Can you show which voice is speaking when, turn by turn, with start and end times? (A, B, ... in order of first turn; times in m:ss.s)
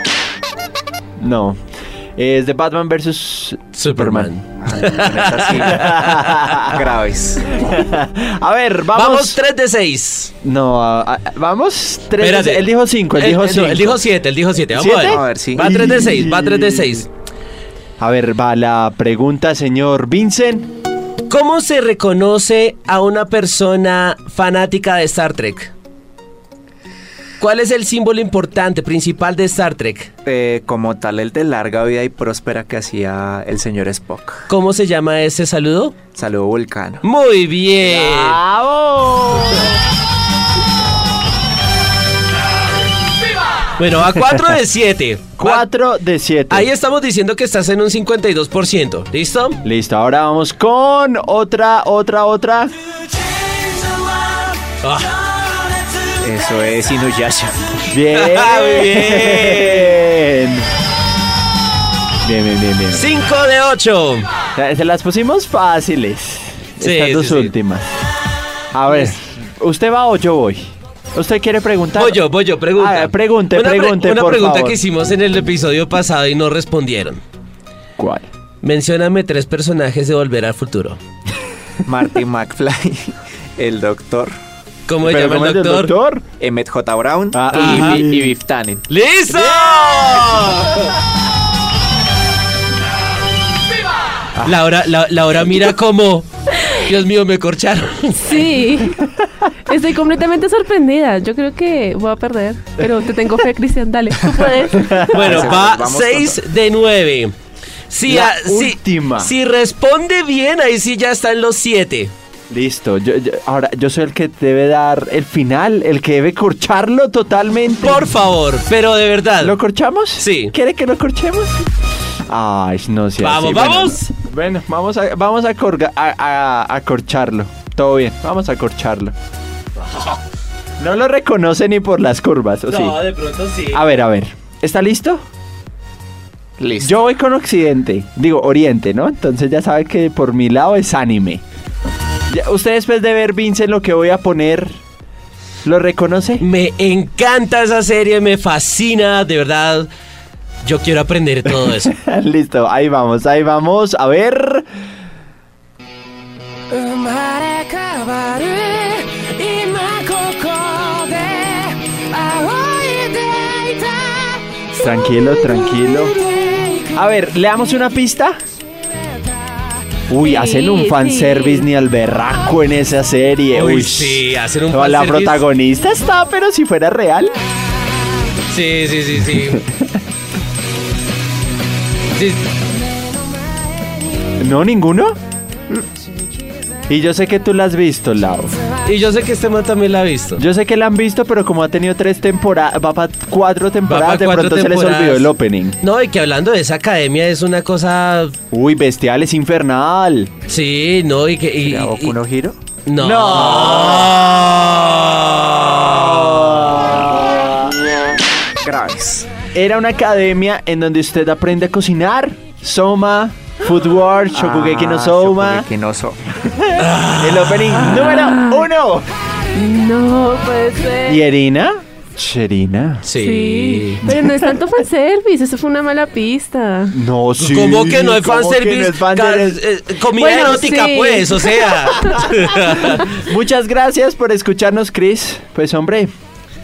0:01.2-0:01.6 A
0:02.2-0:04.3 A
0:03.7-0:06.4 B
0:04.6-0:06.0 C
0:05.6-0:06.8 A
0:06.6-0:07.6 C
0:07.5-0:09.4 A
0:08.9-0:10.3 B
0:10.4-0:14.0 A
0:12.2-0:17.1 B
0:14.7-0:17.0 A
0:15.0-0:15.8 C
0:18.0-0:20.7 A
0:21.3-0:25.7 B
0:27.4-0:30.1 B
0:30.2-0:34.4 C
0:34.5-0:36.0 B
0:36.1-0:37.0 C
0:37.0-0:38.4 B
0:37.8-0:39.8 A
0:43.8-0:45.6 B
0:45.4-0:46.7 A
0:46.5-0:49.6 B
0:49.6-0:52.7 A
0:54.8-0:55.3 B
0:56.2-0:57.7 C
0:57.9-1:00.7 A
0:58.1-1:00.0 B
1:02.2-1:03.1 A
1:02.9-1:04.3 B
1:04.5-1:07.9 A
1:06.8-1:07.5 B
1:08.7-1:12.2 A
1:08.9-1:09.1 B
1:12.0-1:17.2 B
1:12.7-1:14.8 A
1:18.0-1:18.3 A
1:18.6-1:21.0 B
1:21.8-1:24.3 C
1:24.9-1:25.9 B
1:25.0-1:26.2 A
1:26.4-1:28.8 C
1:27.3-1:28.3 A
1:27.5-1:28.0 B
1:28.9-1:30.9 B
1:29.5-1:30.5 A
1:34.4-1:38.6 B
1:38.2-1:39.0 D
1:39.7-1:45.0 D
1:44.7-1:45.6 A
1:45.1-1:47.3 B
1:45.1-1:46.4 C
1:47.9-1:52.1 B
1:48.0-1:49.3 A
1:52.5-1:58.1 A
1:57.8-1:59.6 B
1:59.4-2:01.6 A
2:00.2-2:00.5 B
2:02.3-2:09.2 A
2:03.2-2:04.1 B
2:10.8-2:13.1 A
2:12.7-2:13.8 B
2:13.7-2:15.2 A
2:16.6-2:17.0 C
2:16.8-2:21.4 A
2:22.3-2:24.8 A
2:25.6-2:26.4 A
2:26.4-2:29.9 B
2:30.6-2:31.9 B
2:31.4-2:34.7 A
2:36.7-2:44.3 B
2:44.7-2:46.2 A
2:46.2-2:46.6 B
2:46.9-2:48.4 A
2:50.1-2:57.4 A
2:50.2-2:51.7 D
2:53.5-2:55.4 B
2:58.5-2:59.6 B
2:59.3-2:59.9 A
3:02.1-3:02.5 B
3:04.4-3:05.2 A
3:06.9-3:08.5 A
3:08.8-3:10.4 B
3:10.4-3:15.8 A
3:13.9-3:15.3 B
3:15.8-3:18.4 B
3:18.5-3:20.3 A
3:20.5-3:22.2 B
3:21.6-3:22.6 C
3:22.8-3:26.6 B
3:23.0-3:24.4 A
3:25.6-3:27.8 A
3:28.6-3:29.3 C
3:29.5-3:35.7 A
3:34.3-3:36.2 C
3:36.4-3:39.1 A
3:36.8-3:38.3 B
3:38.2-3:38.6 D
3:39.5-3:41.2 D
3:41.0-3:43.1 A
3:43.0-3:44.0 B
3:43.1-3:47.0 D
3:44.0-3:44.6 A
3:46.9-3:49.6 A
3:47.4-3:53.1 B
3:50.2-3:52.1 D
3:52.0-3:56.1 A